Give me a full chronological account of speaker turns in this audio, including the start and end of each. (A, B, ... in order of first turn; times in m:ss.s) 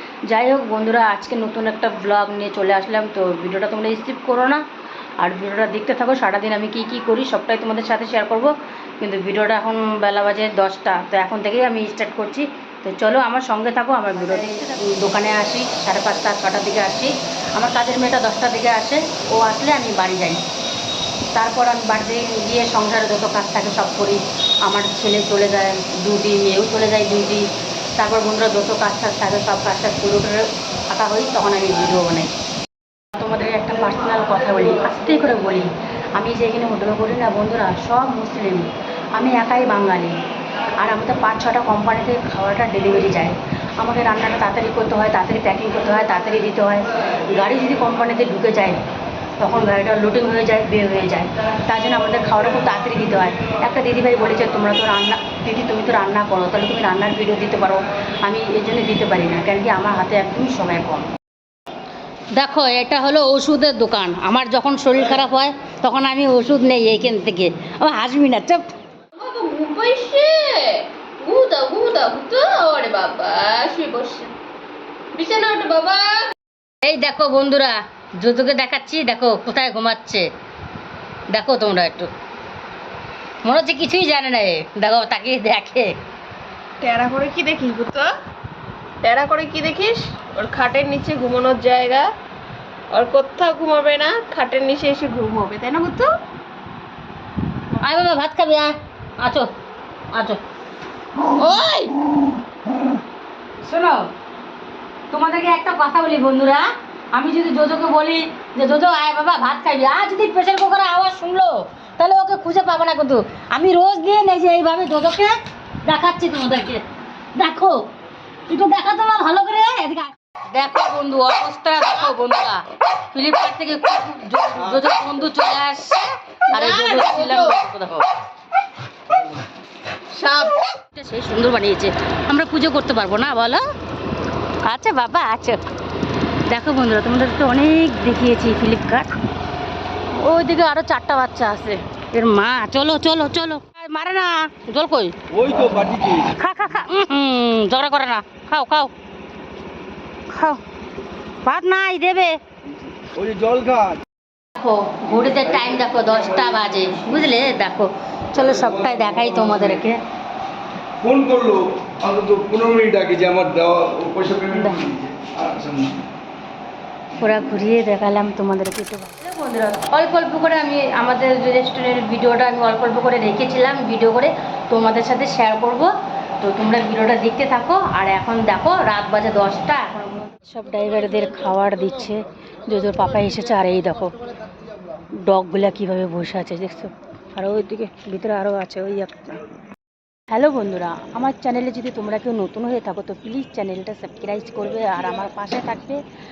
0:00.3-0:04.6 A
0:05.2-0:20.4 A
0:21.3-0:32.4 A
0:33.1-0:40.2 A
0:40.8-0:48.8 A
0:49.4-1:01.1 A
1:02.4-1:08.7 A
1:09.1-1:14.3 B
1:15.1-1:16.3 B
1:16.8-1:20.3 A
1:21.3-1:22.1 A
1:23.4-1:25.9 A
1:26.8-1:28.1 B
1:29.0-1:32.1 B
1:32.9-1:36.1 B
1:37.8-1:39.5 A
1:40.1-1:40.4 A
1:41.2-1:42.1 B
1:43.6-1:44.0 A
1:45.1-1:56.8 A
1:57.4-1:57.8 A
1:58.5-2:08.1 A
2:06.5-2:07.6 B
2:10.1-2:10.6 B
2:10.9-2:13.6 A
2:14.6-2:15.6 A
2:16.5-2:19.1 A
2:20.1-2:25.2 A
2:25.3-2:26.3 C
2:26.3-2:28.9 A
2:30.3-2:30.6 A
2:31.4-2:32.4 A
2:33.1-2:34.0 C
2:34.6-2:40.0 A
2:38.6-2:39.6 C
2:41.0-2:46.0 C
2:44.5-2:44.9 A
2:47.2-3:04.1 A
3:05.2-3:09.4 A
3:10.3-3:16.0 A